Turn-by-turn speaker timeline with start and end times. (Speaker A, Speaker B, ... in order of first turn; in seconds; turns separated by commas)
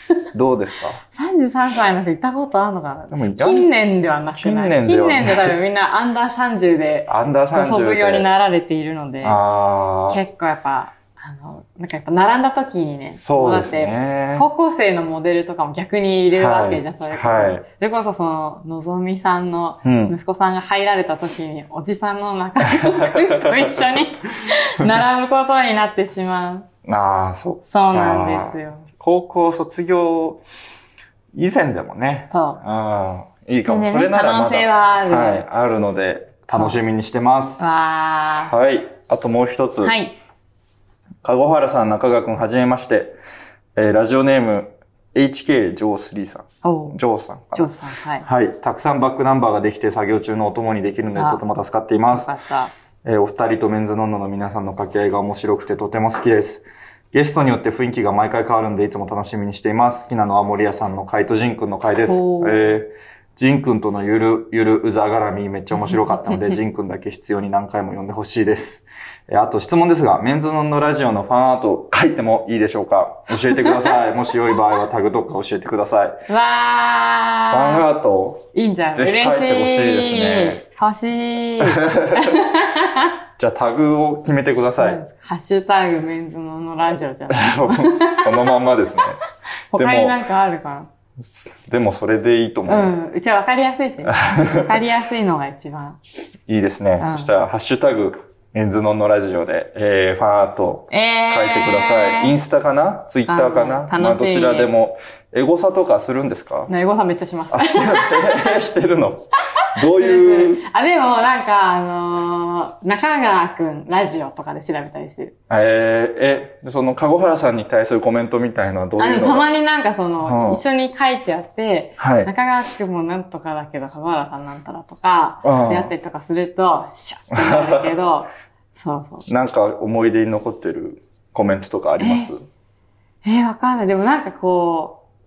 Speaker A: 0.3-1.0, Speaker B: 1.1-9.4, Speaker A: 3.1-3.7, Speaker A: 4.4-5.5, Speaker A: 7.1-8.3, Speaker A: 9.2-10.2, Speaker B: 10.1-26.7, Speaker A: 13.2-14.5, Speaker A: 16.4-17.6, Speaker A: 19.8-20.1, Speaker A: 22.8-23.8, Speaker A: 26.9-30.4, Speaker B: 27.6-28.9, Speaker A: 31.3-37.6, Speaker B: 32.3-32.6, Speaker B: 33.7-35.5, Speaker B: 36.5-36.8, Speaker B: 37.6-38.5, Speaker A: 38.5-40.0, Speaker B: 39.8-40.1, Speaker A: 41.2-43.2, Speaker A: 43.8-47.7, Speaker B: 46.6-47.0, Speaker B: 47.5-48.3, Speaker A: 48.2-52.3, Speaker B: 51.2-51.4, Speaker B: 52.1-52.7, Speaker A: 53.0-76.2, Speaker B: 62.1-62.7, Speaker B: 76.3-77.8, Speaker A: 77.5-78.5, Speaker B: 78.5-83.1, Speaker A: 79.0-80.6, Speaker A: 81.6-82.4, Speaker A: 83.4-85.0, Speaker B: 84.8-88.5, Speaker A: 87.3-89.2, Speaker B: 89.7-90.9, Speaker A: 89.8-90.2, Speaker A: 91.2-93.0, Speaker B: 92.7-96.0, Speaker A: 94.1-94.8, Speaker A: 96.5-106.7, Speaker B: 97.0-97.3, Speaker B: 100.9-102.3, Speaker B: 103.3-104.7, Speaker B: 106.7-108.6, Speaker A: 107.5-110.6, Speaker B: 109.6-115.3, Speaker A: 115.5-119.5, Speaker B: 119.0-129.3, Speaker A: 120.2-120.6, Speaker A: 122.0-122.3, Speaker A: 125.4-125.9, Speaker A: 127.3-127.9, Speaker A: 129.3-132.4, Speaker B: 132.0-132.3, Speaker B: 133.2-135.0